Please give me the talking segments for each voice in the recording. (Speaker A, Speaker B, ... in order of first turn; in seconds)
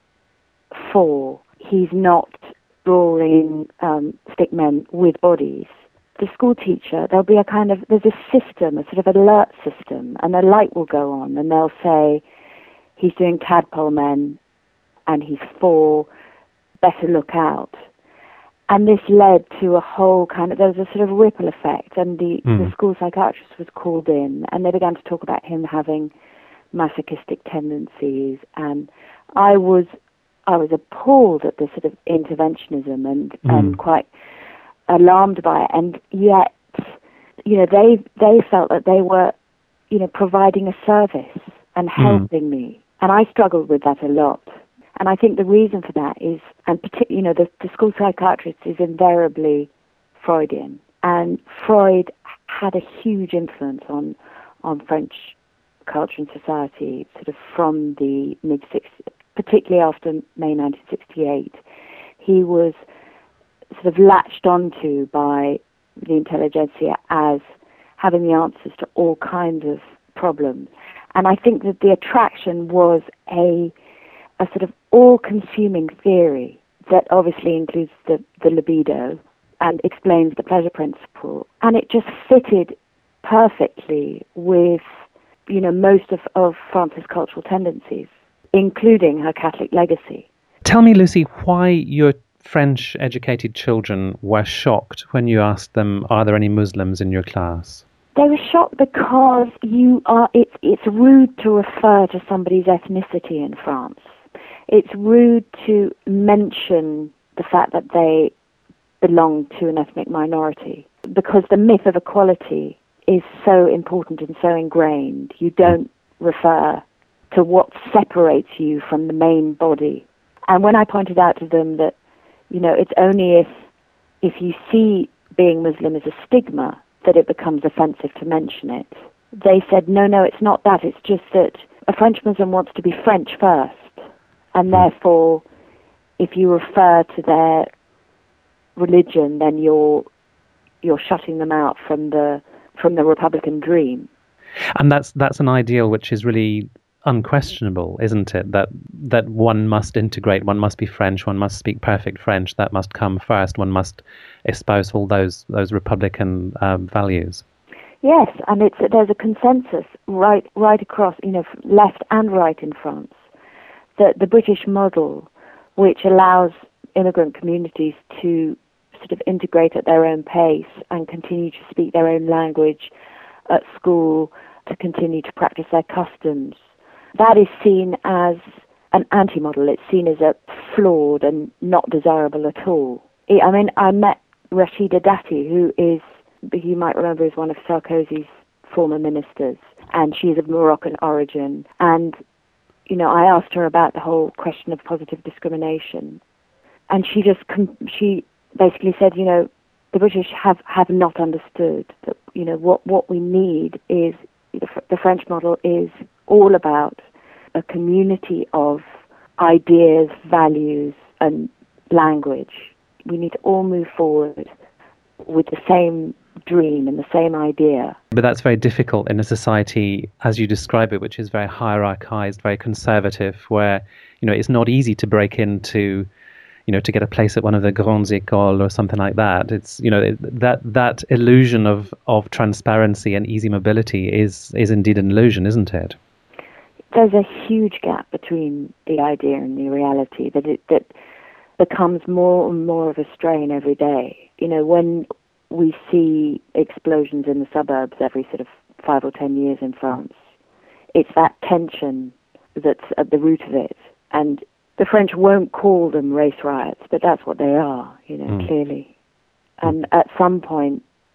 Speaker A: 0.7-12.2, 13.0-14.4, 15.1-16.1, 16.8-17.7, 18.7-26.1, 26.7-29.9, 30.5-34.1, 34.9-39.3, 39.9-61.6, 62.2-62.8, 63.7-67.4, 68.0-73.7, 74.4-84.8, 85.5-90.3, 98.2-104.1, 104.7-108.3, 109.0-122.0, 122.5-123.5, 124.2-134.0, 134.6-135.4, 136.2-137.7, 138.8-140.1, 140.8-144.1, 158.0-163.2, 164.0-172.9, 173.5-176.6, 177.2-192.2, 192.9-196.2, 196.9-207.0, 207.6-208.8, 209.4-214.5, 215.2-218.0, 236.9-240.9, 241.6-250.2, 250.9-258.9, 259.6-260.8
Speaker B: 22.5-22.7, 33.5-33.8, 42.0-42.3, 90.7-97.8, 144.8-157.4, 218.1-226.1, 226.7-236.0